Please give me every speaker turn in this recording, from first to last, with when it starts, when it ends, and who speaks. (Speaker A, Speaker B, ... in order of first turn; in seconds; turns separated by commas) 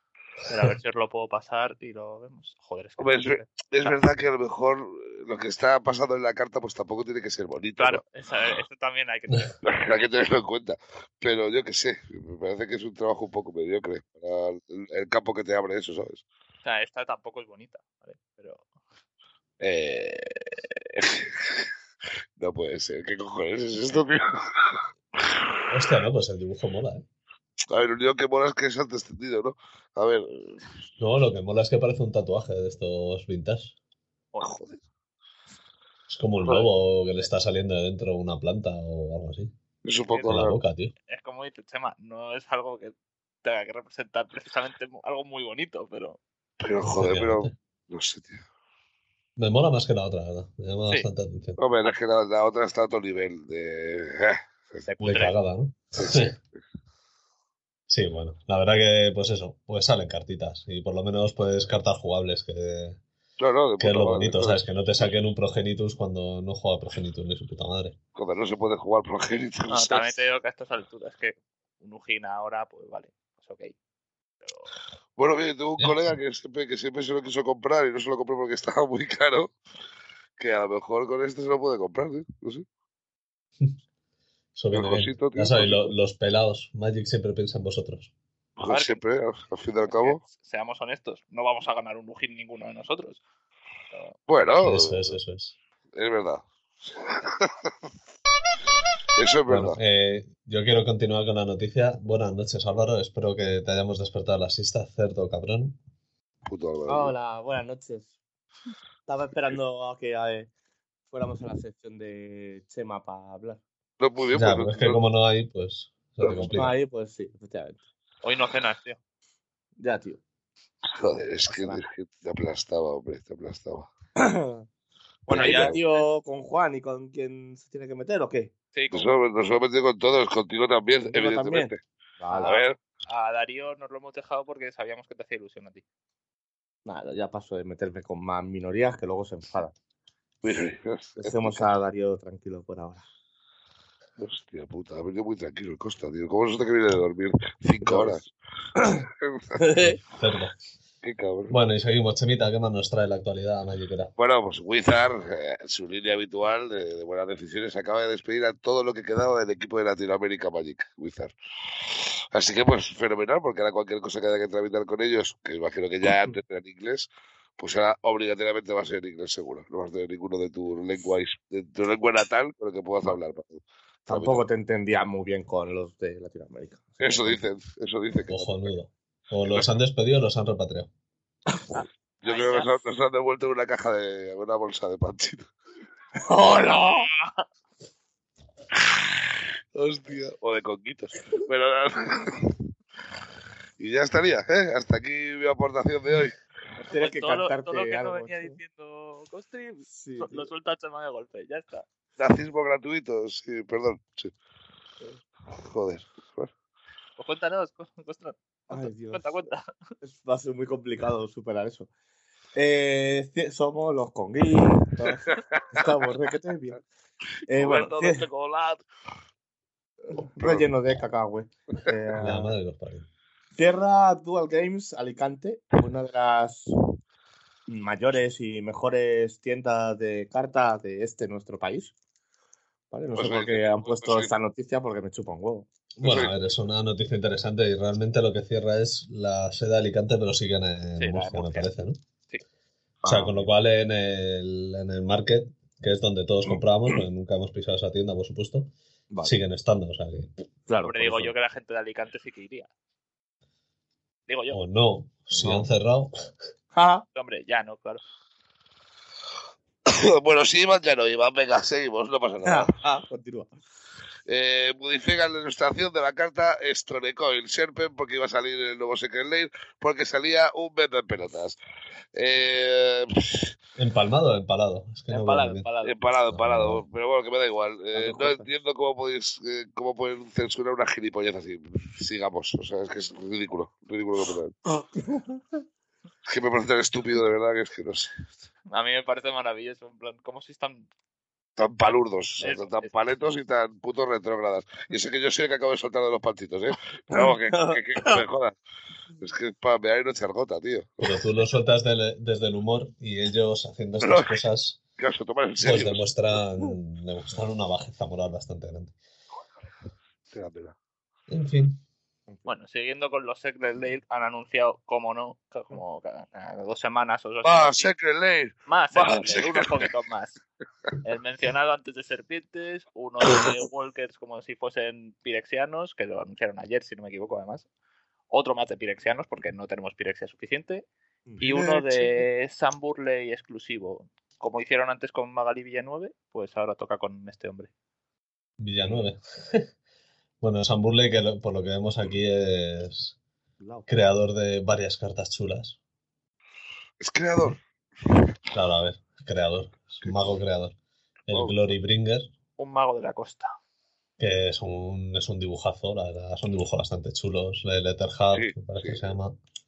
Speaker A: 0.5-4.0, Speaker B: 3.0-8.0, Speaker A: 7.8-9.7, Speaker B: 9.7-16.2, Speaker A: 16.6-18.6, Speaker B: 19.6-21.7, Speaker B: 22.4-25.4, Speaker C: 25.7-27.1, Speaker B: 27.7-30.7, Speaker C: 31.0-33.7, Speaker B: 34.4-34.8, Speaker C: 36.1-39.5, Speaker B: 36.4-36.7, Speaker B: 39.8-40.6, Speaker C: 40.3-40.9, Speaker A: 41.1-46.2, Speaker B: 46.6-48.5, Speaker C: 46.8-47.5, Speaker C: 49.4-51.6, Speaker B: 51.6-54.9, Speaker A: 54.9-55.4, Speaker C: 55.0-56.3, Speaker B: 56.0-56.4, Speaker C: 57.9-63.0, Speaker B: 63.4-65.2, Speaker C: 63.8-68.0, Speaker B: 68.2-70.1, Speaker A: 69.7-73.7, Speaker B: 75.2-79.5, Speaker C: 75.8-76.2, Speaker B: 80.4-82.7, Speaker C: 84.5-88.1, Speaker B: 84.7-85.9, Speaker B: 88.6-90.2, Speaker A: 88.7-89.0, Speaker A: 89.8-93.2, Speaker A: 93.9-94.2, Speaker B: 94.3-95.2, Speaker C: 94.6-95.6, Speaker B: 96.0-97.7, Speaker B: 99.2-99.8, Speaker C: 99.5-105.8, Speaker B: 106.5-107.1, Speaker D: 106.9-108.1, Speaker D: 109.1-110.5, Speaker D: 111.1-113.6, Speaker B: 114.0-115.0, Speaker C: 114.3-116.8, Speaker D: 116.3-117.8, Speaker A: 118.2-119.0, Speaker D: 119.8-120.2, Speaker B: 120.9-123.9, Speaker D: 121.5-121.8, Speaker D: 124.2-124.7, Speaker D: 125.3-128.5, Speaker B: 125.3-125.8, Speaker A: 125.3-126.1, Speaker A: 128.7-129.1, Speaker B: 128.9-131.8, Speaker D: 131.0-132.5, Speaker A: 132.3-135.8, Speaker B: 132.4-132.8, Speaker D: 136.8-139.7, Speaker B: 140.4-141.7, Speaker D: 141.2-143.1, Speaker B: 144.2-148.3, Speaker D: 147.8-148.2, Speaker D: 148.8-149.1, Speaker B: 149.2-149.6, Speaker D: 149.6-150.0, Speaker C: 149.9-150.6, Speaker B: 151.0-151.6, Speaker C: 151.5-154.1, Speaker B: 154.2-161.3, Speaker B: 161.8-174.4, Speaker D: 174.1-177.4, Speaker B: 177.0-178.7, Speaker C: 178.3-180.9, Speaker A: 181.7-182.7, Speaker B: 182.2-185.5, Speaker D: 186.2-187.1, Speaker A: 186.5-187.4, Speaker B: 189.8-192.6, Speaker B: 193.8-196.4, Speaker D: 196.9-198.6, Speaker A: 196.9-201.8, Speaker D: 199.9-200.5, Speaker B: 202.2-204.3, Speaker B: 205.6-206.5, Speaker A: 207.2-209.7, Speaker D: 208.7-209.3, Speaker D: 210.0-211.9, Speaker D: 212.6-216.8, Speaker B: 215.5-215.8, Speaker D: 217.5-218.3, Speaker B: 217.5-218.8, Speaker D: 220.1-222.5, Speaker B: 220.4-220.7, Speaker C: 222.2-223.1, Speaker D: 223.6-226.7, Speaker D: 227.7-231.9, Speaker D: 232.9-235.7, Speaker B: 233.2-234.3, Speaker C: 236.0-242.0, Speaker B: 236.0-236.3, Speaker A: 241.0-241.7, Speaker D: 243.0-243.5, Speaker C: 243.1-250.3, Speaker D: 249.1-249.4, Speaker D: 250.7-251.3, Speaker A: 250.8-252.7, Speaker A: 254.3-254.6, Speaker C: 254.5-256.1, Speaker D: 255.3-255.7, Speaker D: 256.7-257.1, Speaker A: 257.1-258.0, Speaker B: 259.9-262.7, Speaker D: 262.4-263.6, Speaker B: 264.3-271.6, Speaker B: 272.1-273.6, Speaker C: 273.8-275.7, Speaker A: 275.1-276.0, Speaker B: 275.8-284.5, Speaker C: 276.3-276.9, Speaker D: 277.9-278.5, Speaker D: 285.1-285.4, Speaker B: 286.3-288.3, Speaker A: 288.7-290.9, Speaker B: 291.6-298.6, Speaker A: 292.4-292.9, Speaker D: 297.1-298.2, Speaker B: 299.2-301.2, Speaker C: 301.0-304.8, Speaker B: 304.0-304.4, Speaker B: 305.0-306.0, Speaker C: 305.6-308.9, Speaker B: 310.3-310.8, Speaker C: 311.3-311.8, Speaker A: 312.5-317.9, Speaker B: 317.4-319.7, Speaker A: 318.7-320.4, Speaker A: 321.0-327.7, Speaker A: 328.3-330.9, Speaker D: 331.3-332.2, Speaker A: 331.4-337.7, Speaker C: 338.6-339.7, Speaker C: 340.4-343.2, Speaker D: 343.6-343.9, Speaker C: 343.9-345.8, Speaker B: 347.0-347.6, Speaker C: 348.5-350.8, Speaker B: 350.0-350.3, Speaker C: 351.3-352.3, Speaker B: 351.3-351.6, Speaker A: 352.6-353.5, Speaker C: 354.2-359.4, Speaker B: 358.3-359.1